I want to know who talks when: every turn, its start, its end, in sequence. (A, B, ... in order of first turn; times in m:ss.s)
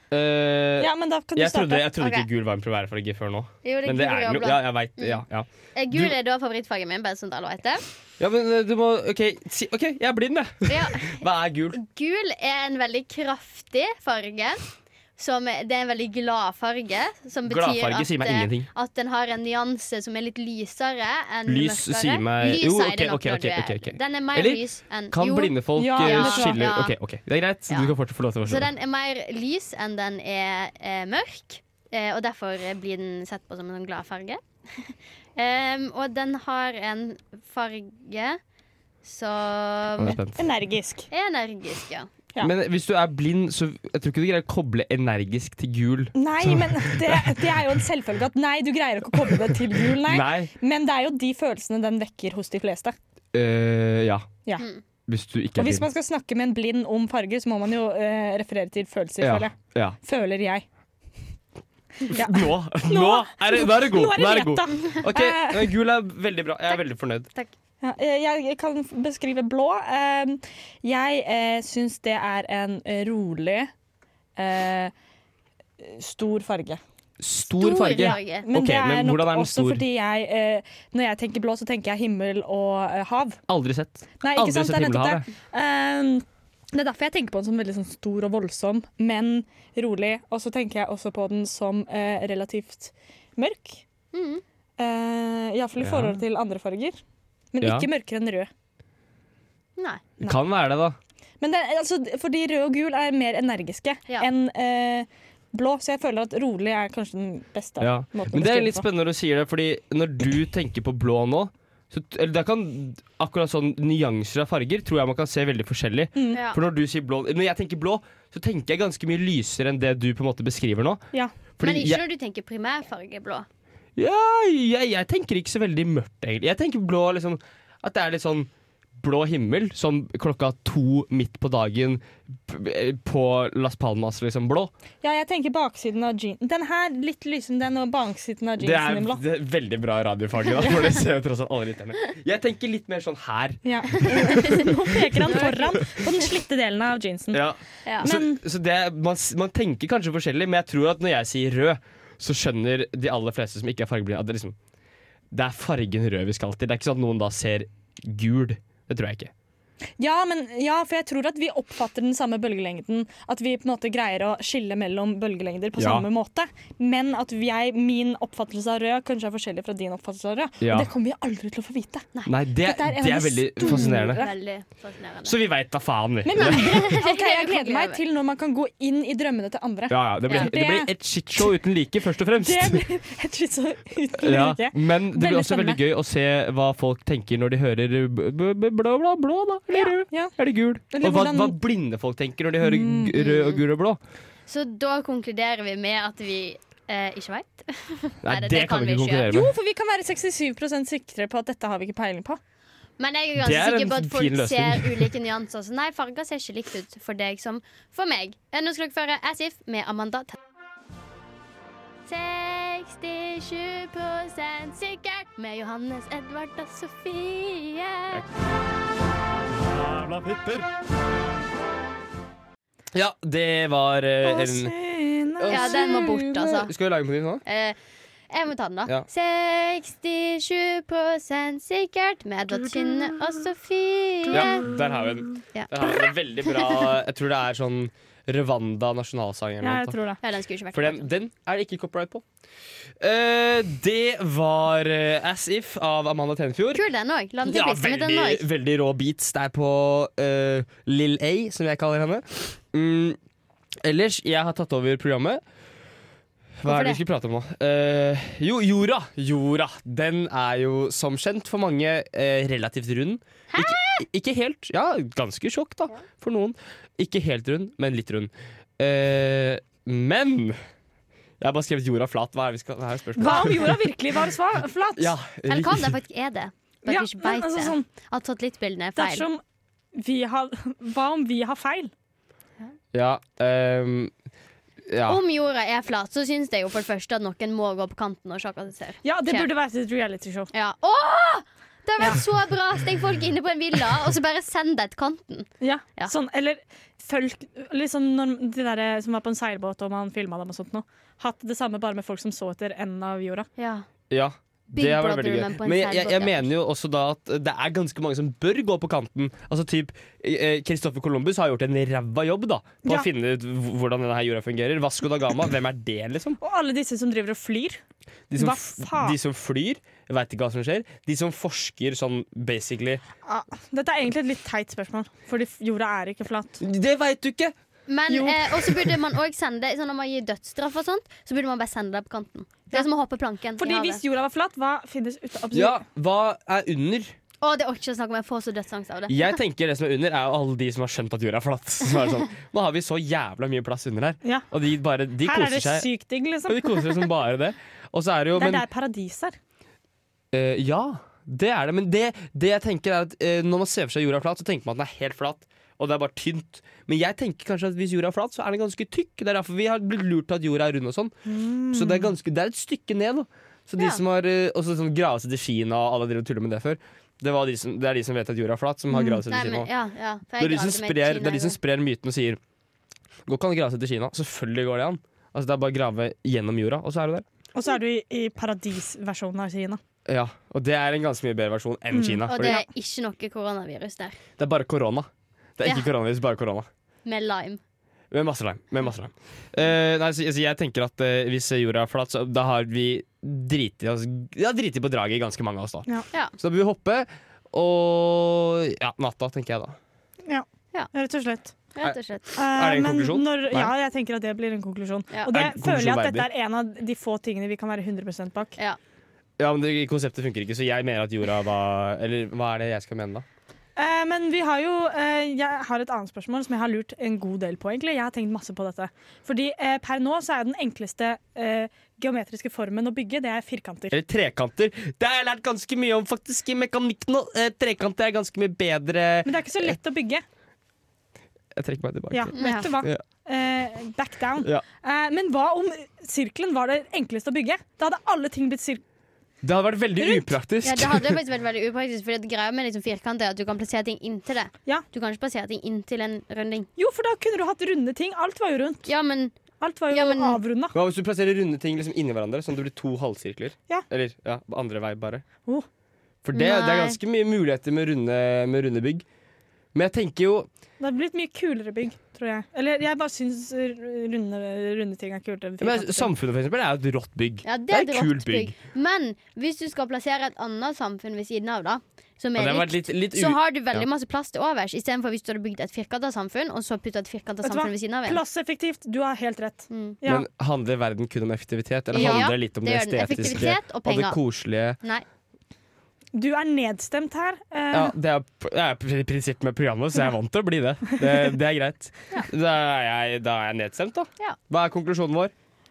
0:00.1-0:06.1 A
0:00.8-0:01.9 B
0:02.0-0:02.3 C
0:03.6-0:05.2 C
0:05.7-0:07.8 C
0:08.2-0:11.8 A
0:10.7-0:14.6 C
0:15.2-0:26.9 C
0:17.4-0:18.7 A
0:21.4-0:28.7 A
0:25.8-0:26.6 B
0:28.4-0:38.4 C
0:39.0-0:40.2 C
0:40.0-0:40.4 A
0:40.4-0:41.1 B
0:41.1-0:42.1 C
0:42.4-0:47.7 A
0:46.1-0:52.9 B
0:49.2-0:50.5 A
0:53.3-0:54.3 A
0:55.1-0:55.8 A
0:55.6-1:00.6 B
0:59.2-1:00.0 A
1:02.0-1:05.7 B
1:02.1-1:07.3 A
1:07.8-1:13.7 B
1:14.4-1:14.9 B
1:15.8-1:16.8 B
1:17.2-1:19.8 A
1:17.6-1:18.4 C
1:18.0-1:23.4 B
1:23.5-1:25.2 A
1:24.2-1:33.8 B
1:34.1-1:34.4 C
1:34.8-1:37.0 B
1:35.8-1:36.2 A
1:37.5-1:38.5 B
1:37.6-1:37.9 A
1:39.8-1:40.0 C
1:40.2-1:41.0 A
1:41.4-1:48.8 B
1:47.8-2:01.0 A
1:56.2-1:56.4 B
1:56.3-1:56.6 C
2:01.6-2:02.0 A
2:01.6-2:03.5 C
2:04.0-2:14.7 A
2:15.0-2:19.2 B
2:18.6-2:25.2 A
2:20.6-2:20.8 B
2:23.6-2:27.4 B
2:24.2-2:24.7 C
2:25.2-2:25.9 C
2:27.3-2:34.6 A
2:28.0-2:28.4 B
2:35.3-2:39.3 A
2:40.0-2:52.0 B
2:45.8-2:46.0 A
2:50.6-2:50.9 A
2:52.2-2:54.2 A
2:52.6-2:54.3 B
2:53.6-2:55.4 C
2:55.2-2:56.8 A
2:56.2-3:01.4 B
2:56.4-2:58.0 C
2:59.9-3:02.8 A
3:02.4-3:05.8 B
3:04.2-3:14.0 A
3:09.7-3:10.3 B
3:10.9-3:11.6 B
3:12.6-3:13.1 B
3:13.2-3:13.6 C
3:14.5-3:19.3 C
3:18.2-3:19.5 A
3:19.3-3:22.4 B
3:23.0-3:30.4 C
3:23.4-3:25.1 A
3:32.0-3:38.2 C
3:39.5-3:40.7 A
3:42.9-3:44.7 A
3:44.2-3:46.1 B
3:45.4-3:47.4 A
3:45.5-3:46.7 C
3:47.4-3:47.8 C
3:48.3-3:54.7 C
3:54.3-4:00.0 A
3:55.5-3:56.9 C
3:59.6-4:00.2 B
4:00.2-4:01.1 C
4:00.7-4:02.2 A
4:03.0-4:06.8 A
4:06.7-4:08.4 C
4:07.4-4:13.2 A
4:13.8-4:15.4 A
4:16.6-4:30.6 A
4:16.6-4:17.0 C
4:23.5-4:24.0 C
4:31.4-4:33.8 A
4:33.2-4:35.1 B
4:35.0-4:35.9 A
4:35.5-4:39.3 C
4:36.9-4:37.9 B
4:39.0-4:39.4 B
4:39.9-4:41.9 B
4:42.9-4:44.1 A
4:44.8-4:45.2 A
4:45.0-4:49.5 C
4:49.0-4:50.5 B
4:50.5-4:56.1 C
4:55.6-5:03.5 B
5:03.6-5:03.9 C
5:04.1-5:16.4 A
5:04.7-5:06.5 C
5:16.4-5:17.8 B
5:18.3-5:23.0 A
5:18.4-5:19.2 B
5:23.2-5:26.6 B
5:26.6-5:27.5 A
5:27.9-5:34.0 C
5:28.1-5:28.8 B
5:33.6-5:35.8 B
5:35.5-5:37.1 A
5:37.4-5:39.3 C
5:39.1-5:45.9 A
5:45.2-5:46.7 B
5:46.5-5:48.6 A
5:48.3-5:49.4 B
5:50.3-6:01.1 A
6:01.2-6:02.1 B
6:01.7-6:09.7 A
6:08.9-6:09.2 B
6:09.3-6:11.6 C
6:10.4-6:12.4 A
6:13.3-6:17.2 A
6:17.5-6:19.8 B
6:20.0-6:22.6 A
6:21.9-6:22.6 B
6:22.3-6:24.2 C
6:24.4-6:26.7 A
6:25.6-6:25.9 C
6:27.0-6:27.6 C
6:28.1-6:39.8 A
6:40.2-6:41.5 B
6:41.7-6:42.3 C
6:41.8-6:43.7 A
6:42.3-6:48.5 B
6:45.3-6:46.3 A
6:49.4-6:53.2 A
6:53.8-7:03.9 B
7:03.9-7:09.8 A
7:09.2-7:10.2 B
7:11.5-7:13.0 A
7:12.1-7:18.8 B
7:12.3-7:12.7 C
7:19.4-7:21.2 A
7:20.0-7:20.3 B
7:20.6-7:26.7 C
7:26.8-7:28.9 B
7:28.9-7:29.3 C
7:29.6-7:30.8 B
7:29.9-7:30.4 C
7:30.7-7:35.2 A
7:36.2-7:39.0 A
7:36.3-7:37.0 C
7:39.7-7:40.5 A
7:40.8-7:46.1 B
7:45.6-7:48.5 A
7:47.4-7:58.2 C
7:52.4-7:53.9 A
7:57.4-8:00.2 B
7:59.7-8:00.0 C
8:00.0-8:04.8 A
8:01.9-8:04.2 C
8:01.9-8:02.3 B
8:06.1-8:07.9 B
8:07.7-8:15.3 A